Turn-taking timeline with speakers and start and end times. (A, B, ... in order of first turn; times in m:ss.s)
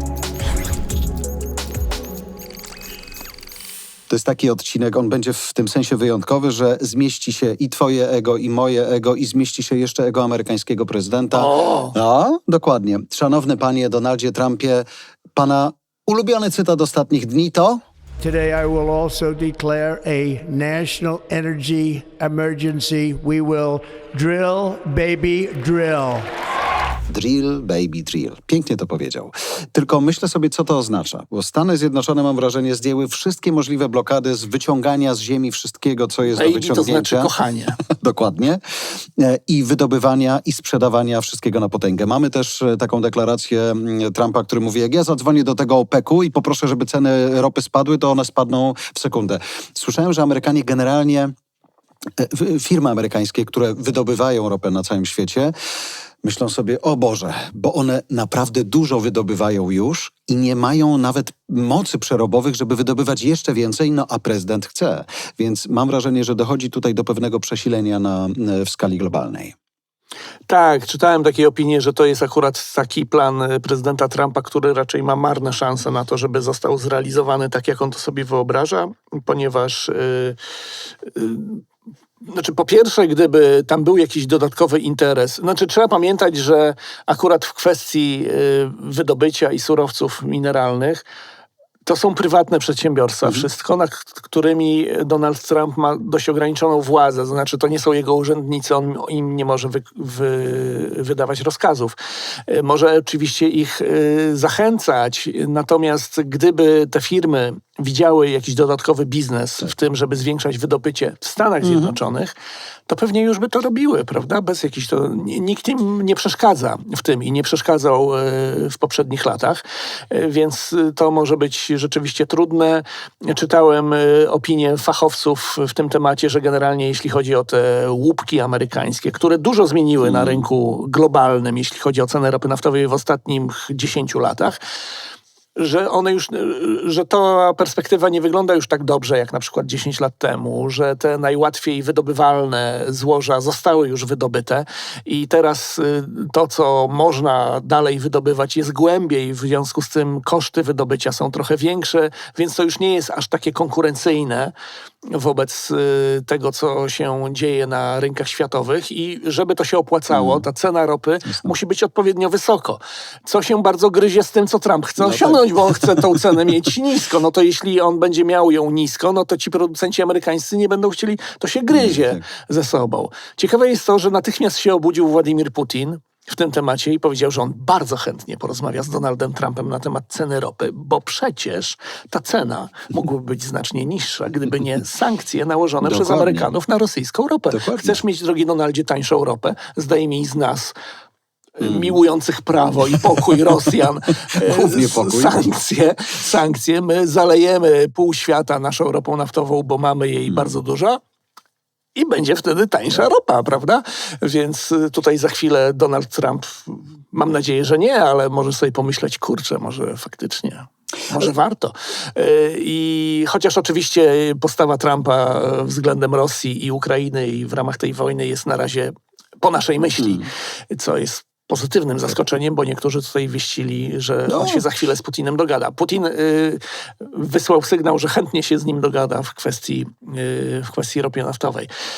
0:04.1-0:14.8 A
0:11.3-0:12.0 B
0:15.4-0:17.8 A
0:18.2-0:26.2 C
0:27.1-0:37.3 A
0:36.3-0:37.8 B
0:37.9-0:38.6 A
0:39.2-0:51.3 A
0:52.2-0:55.5 A
0:56.2-1:09.5 A
1:10.5-1:20.4 B
1:21.0-1:21.6 B
1:22.2-1:31.0 B
1:31.8-1:52.3 B
1:51.6-1:52.0 A
1:52.9-2:14.6 B
2:10.0-2:10.4 A
2:15.6-2:34.5 B
2:35.1-3:10.7 B
2:40.1-2:40.5 A
2:41.2-2:41.6 A
2:45.0-2:46.2 A
2:51.7-2:52.2 A
3:05.8-3:06.5 A
3:07.5-3:08.0 A
3:11.6-3:21.0 B
3:11.6-3:12.0 A
3:14.3-3:15.5 A
3:20.3-3:20.6 A
3:22.0-3:51.7 B
3:40.0-3:40.3 A
3:44.3-3:44.7 A